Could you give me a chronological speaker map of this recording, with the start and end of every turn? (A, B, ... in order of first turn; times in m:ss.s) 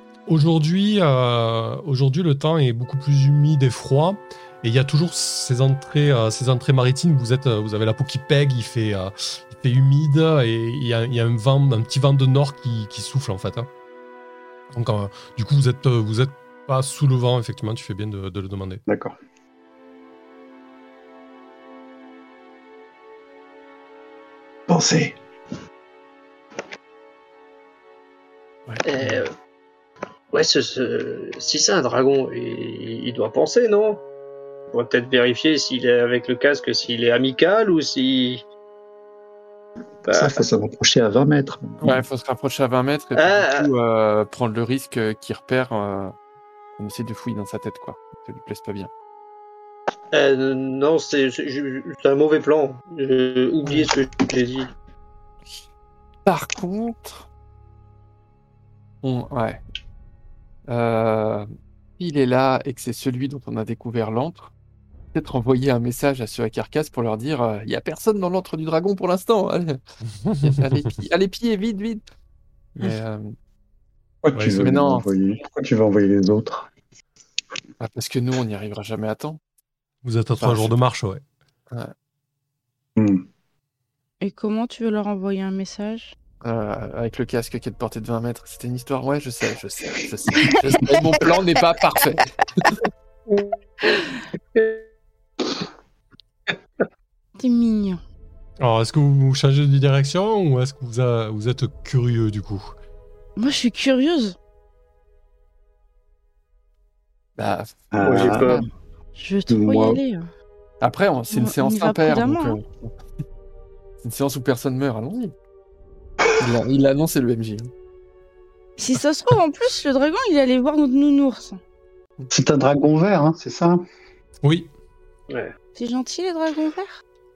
0:00.3-0:13.7 A
0:14.7-0:18.8 A
0:18.9-0:19.2 B
0:24.7-0:25.2 B
0:28.7-0:29.2 C
0:28.8-0:29.3 D
0:30.3-0:34.0 D
0:34.7-0:38.4 D
0:40.0-0:42.0 B
0:40.1-0:40.4 D
0:41.8-0:46.1 C
0:43.2-0:43.7 D
0:46.8-0:48.9 C
0:50.1-0:54.7 D
0:53.6-0:53.9 C
0:56.2-0:57.3 C
0:59.0-0:59.6 C
1:00.7-1:04.5 C
1:05.1-1:09.8 C
1:10.1-1:10.6 A
1:10.4-1:12.0 C
1:12.8-1:13.3 C
1:14.2-1:16.7 B
1:14.5-1:15.0 C
1:17.8-1:19.4 C
1:20.0-1:21.2 A
1:20.4-1:20.7 C
1:23.0-1:23.2 B
1:24.2-1:26.1 E
1:26.4-1:32.8 C
1:30.5-1:31.1 E
1:33.3-1:34.0 D
1:34.5-1:34.8 D
1:37.4-1:38.0 E
1:38.6-1:42.7 A
1:43.4-1:44.4 E
1:47.4-1:48.7 C
1:47.9-1:48.6 B
1:48.0-1:48.6 D
1:49.2-1:50.3 E
1:49.5-1:50.0 B
1:50.8-1:52.9 C
1:51.3-1:52.6 E
1:54.0-1:55.3 C
1:56.2-1:56.6 B
1:56.4-1:57.7 C
1:58.8-2:01.6 E
2:02.3-2:03.8 B
2:04.4-2:04.7 A
2:05.3-2:05.5 D
2:05.7-2:07.0 E